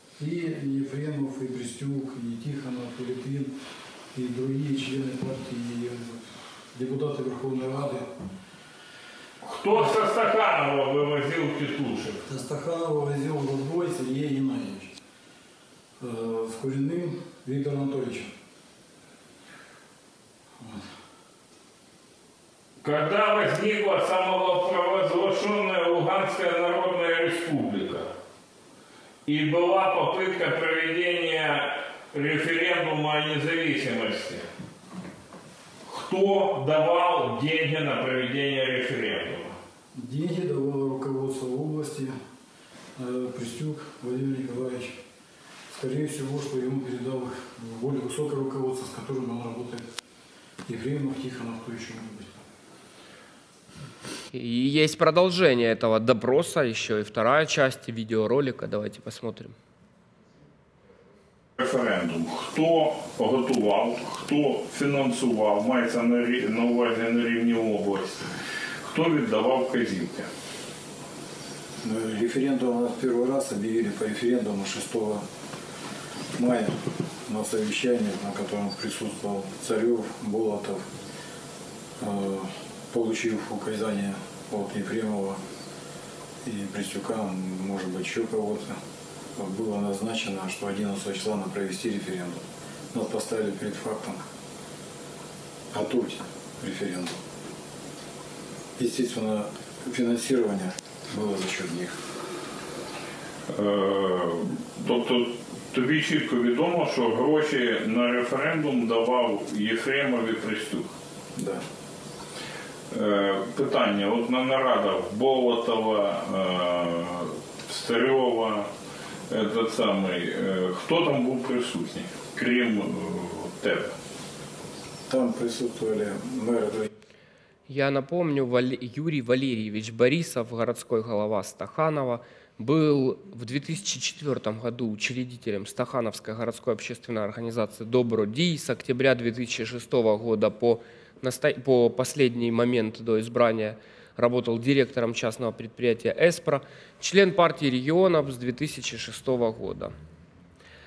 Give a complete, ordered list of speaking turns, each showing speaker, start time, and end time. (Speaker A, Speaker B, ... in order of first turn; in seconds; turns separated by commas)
Speaker A: 0.2-3.5, Speaker A: 4.1-6.2, Speaker A: 6.7-8.1, Speaker B: 9.4-12.2, Speaker A: 12.3-14.9, Speaker A: 16.0-18.3, Speaker B: 22.8-28.1, Speaker B: 29.2-34.5, Speaker B: 35.9-39.5, Speaker A: 39.9-42.1, Speaker A: 43.0-45.0, Speaker A: 45.7-49.8, Speaker A: 50.6-52.4, Speaker C: 54.3-59.5, Speaker B: 61.6-68.2, Speaker B: 68.8-70.3, Speaker A: 71.8-75.2, Speaker A: 76.3-80.9, Speaker A: 82.0-85.4, Speaker A: 86.4-88.8, Speaker A: 89.3-94.2, Speaker A: 95.7-97.2, Speaker A: 98.8-102.0, Speaker B: 103.5-110.9, Speaker A: 111.3-111.6, Speaker B: 112.9-118.7, Speaker B: 119.3-123.9, Speaker A: 125.1-126.9, Speaker C: 127.7-149.9